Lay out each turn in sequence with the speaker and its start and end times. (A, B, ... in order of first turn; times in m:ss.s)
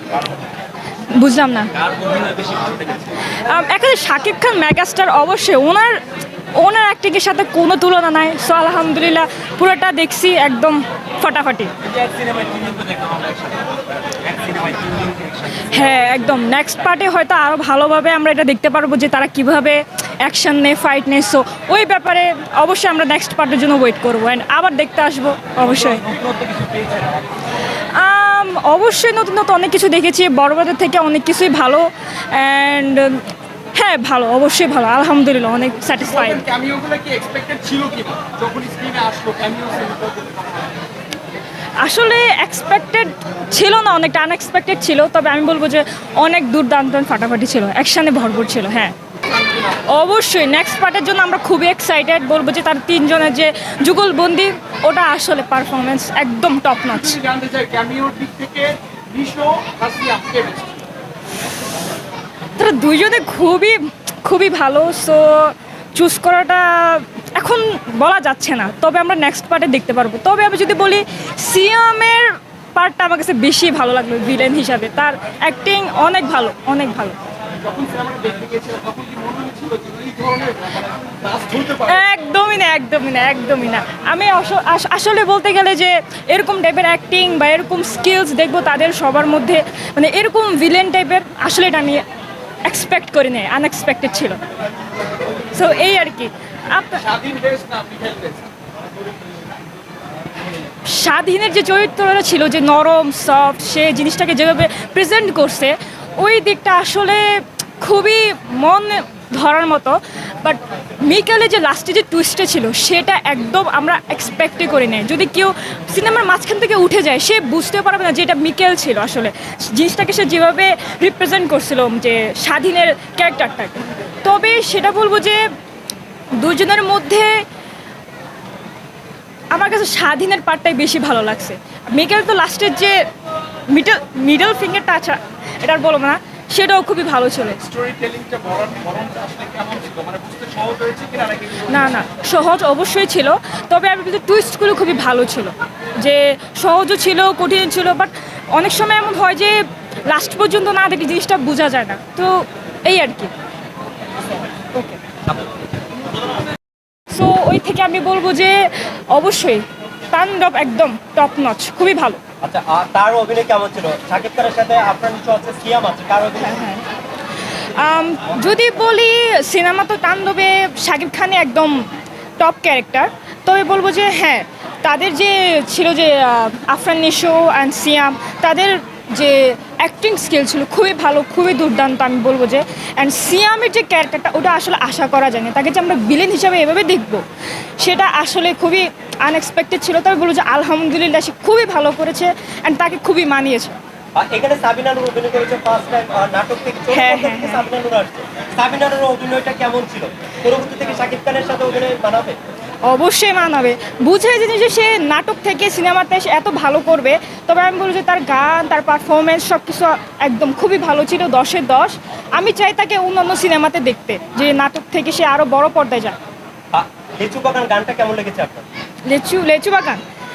0:01.1-0:01.8 A
0:02.0-0:02.8 B
0:03.4-0:06.0 A
0:06.6-0:11.7 A
0:12.0-0:13.4 B
0:14.3-0:15.0 B
0:15.6-0:26.1 A
0:26.3-0:27.0 B
0:27.9-0:33.2 A
0:33.8-0:36.4 A
0:36.0-0:40.8 B
0:41.8-0:49.0 A
0:49.3-0:49.8 B
0:49.8-0:57.2 A
0:56.9-1:00.9 B
1:02.6-1:17.2 A
1:17.6-1:22.0 B
1:21.8-1:32.0 A
1:32.7-1:34.4 A
1:35.5-1:37.0 A
1:37.0-1:38.5 B
1:40.8-2:05.5 A
2:06.4-2:07.5 A
2:09.5-2:13.1 A
2:13.7-2:17.6 A
2:17.6-2:22.0 B
2:21.7-2:33.3 A
2:34.7-2:35.0 A
2:37.1-2:42.2 A
2:42.4-2:46.6 C
2:46.4-2:46.8 A
2:47.7-3:07.2 A
3:07.8-3:13.8 A
3:14.2-3:22.4 C
3:16.9-3:17.6 A
3:22.8-3:36.2 A
3:36.7-3:38.7 C
3:39.1-3:40.0 A